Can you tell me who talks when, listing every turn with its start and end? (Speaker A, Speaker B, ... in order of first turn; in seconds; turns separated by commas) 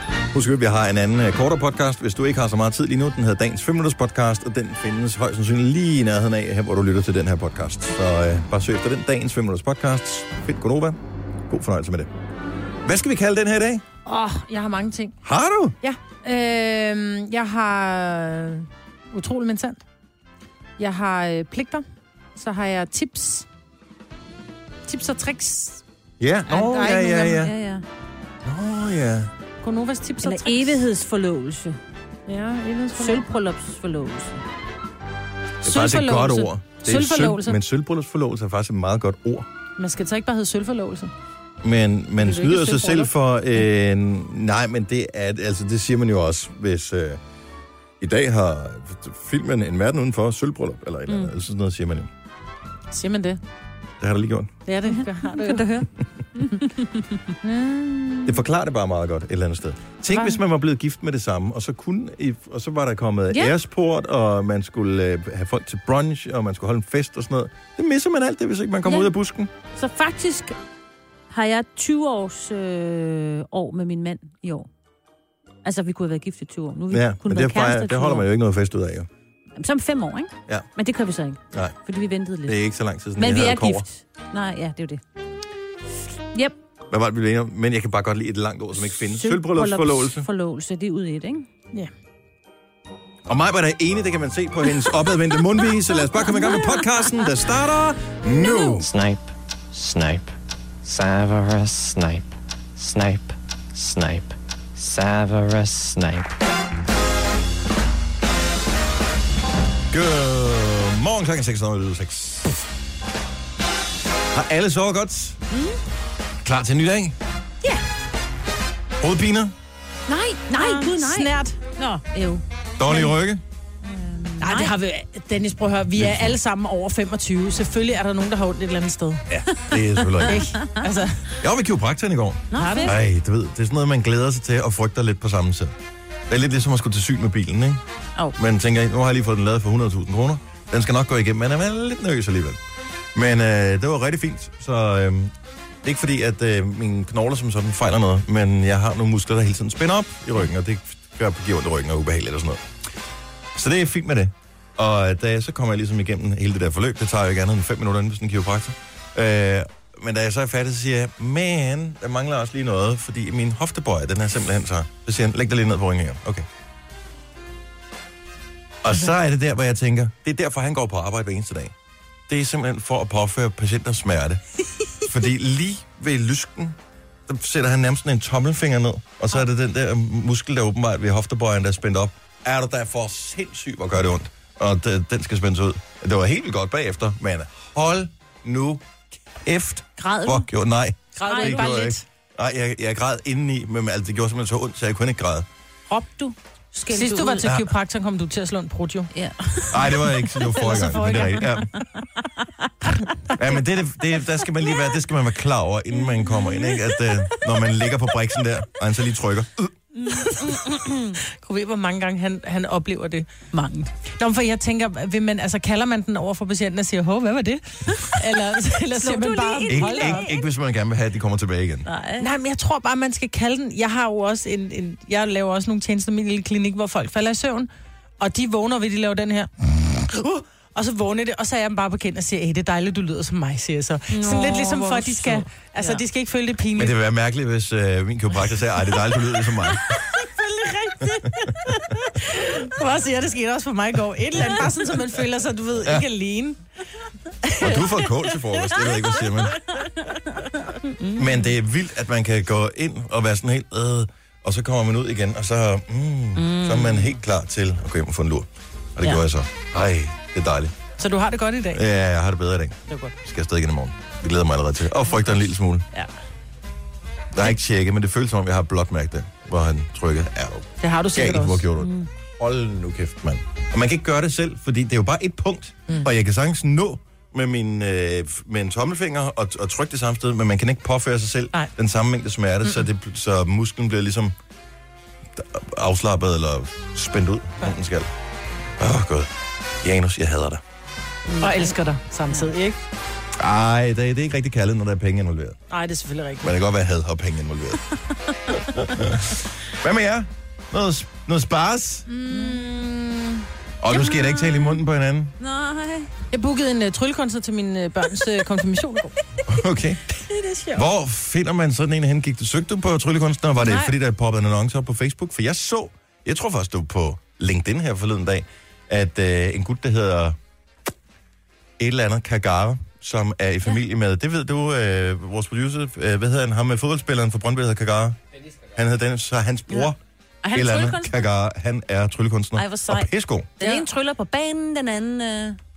Speaker A: 0.3-12.1, Speaker A: 12.8-13.8, Speaker B: 14.1-15.2, Speaker A: 15.2-15.8, Speaker B: 15.8-19.8, Speaker B: 20.8-21.9, Speaker B: 22.4-23.5, Speaker B: 24.9-25.8, Speaker A: 26.2-27.5, Speaker B: 26.5-27.4, Speaker C: 26.7-27.9, Speaker A: 28.4-29.3, Speaker B: 29.6-30.8, Speaker C: 30.2-31.8, Speaker B: 32.3-33.3, Speaker C: 33.0-34.4, Speaker A: 35.6-39.5, Speaker B: 35.6-37.6, Speaker B: 39.8-41.1, Speaker A: 41.6-47.2, Speaker B: 42.2-43.1, Speaker A: 48.0-52.1, Speaker B: 52.9-53.4, Speaker A: 54.0-54.5, Speaker B: 54.7-55.8, Speaker C: 54.9-57.2, Speaker B: 57.4-58.4, Speaker A: 58.3-69.5, Speaker B: 60.1-60.4, Speaker C: 68.8-69.1, Speaker C: 69.8-70.6, Speaker C: 71.3-74.7, Speaker C: 75.6-78.3, Speaker A: 76.9-79.1, Speaker C: 79.6-82.6, Speaker A: 81.5-81.8, Speaker A: 82.5-83.8, Speaker C: 83.2-85.0, Speaker A: 86.9-90.3, Speaker C: 88.9-91.5, Speaker A: 93.3-98.9, Speaker C: 96.3-96.8, Speaker D: 98.7-106.3, Speaker A: 109.9-112.7, Speaker A: 114.3-115.4, Speaker C: 115.5-115.8, Speaker A: 116.4-117.2, Speaker A: 119.0-119.5, Speaker C: 120.1-123.0, Speaker B: 120.5-121.6, Speaker A: 122.8-123.4, Speaker C: 123.8-124.7, Speaker B: 124.4-129.2, Speaker A: 126.0-126.4, Speaker A: 129.3-130.5, Speaker C: 130.2-130.8, Speaker B: 130.2-131.3, Speaker A: 131.4-135.8, Speaker C: 132.5-133.0, Speaker B: 132.6-132.9, Speaker A: 136.3-137.8, Speaker A: 138.4-142.6, Speaker A: 143.2-152.7, Speaker A: 153.6-166.5, Speaker A: 168.8-171.7, Speaker A: 172.3-174.4, Speaker A: 175.0-176.8, Speaker A: 177.3-188.9, Speaker A: 189.4-195.5, Speaker C: 190.0-190.5, Speaker B: 191.2-192.0, Speaker C: 191.2-191.8, Speaker C: 195.9-197.5, Speaker B: 196.9-199.1, Speaker A: 197.4-197.7, Speaker C: 199.1-200.2, Speaker A: 199.7-201.8, Speaker B: 200.6-201.5, Speaker C: 201.8-203.1, Speaker A: 203.3-209.7, Speaker C: 206.1-207.1, Speaker C: 210.0-211.2, Speaker B: 210.2-210.6, Speaker B: 211.3-213.3, Speaker C: 213.5-213.9, Speaker B: 214.2-220.2, Speaker C: 219.0-220.4, Speaker A: 219.7-221.9, Speaker C: 221.9-222.3, Speaker B: 222.2-227.7, Speaker B: 228.2-237.0, Speaker C: 234.1-236.0, Speaker A: 236.8-240.0, Speaker B: 239.7-246.6, Speaker A: 247.6-249.6, Speaker C: 251.0-251.5, Speaker A: 251.2-260.8, Speaker C: 256.4-257.2, Speaker B: 261.0-261.8, Speaker A: 261.7-265.9, Speaker B: 262.9-263.2, Speaker A: 267.3-284.3, Speaker B: 270.8-271.6, Speaker C: 271.8-272.1, Speaker A: 285.4-288.1, Speaker A: 288.8-290.6, Speaker C: 291.3-291.8, Speaker B: 291.4-292.8, Speaker A: 293.4-295.6, Speaker B: 295.7-296.6, Speaker A: 296.4-297.8, Speaker A: 298.7-302.1, Speaker B: 302.1-303.4, Speaker C: 302.3-302.6, Speaker A: 303.8-305.4, Speaker C: 303.9-304.8, Speaker C: 305.4-306.1, Speaker B: 306.3-309.2, Speaker A: 309.5-310.0, Speaker B: 310.3-310.8, Speaker A: 310.8-320.4, Speaker B: 313.6-313.9, Speaker A: 321.8-328.2, Speaker A: 328.7-330.0, Speaker C: 330.4-331.2, Speaker A: 330.5-333.5, Speaker C: 332.6-335.6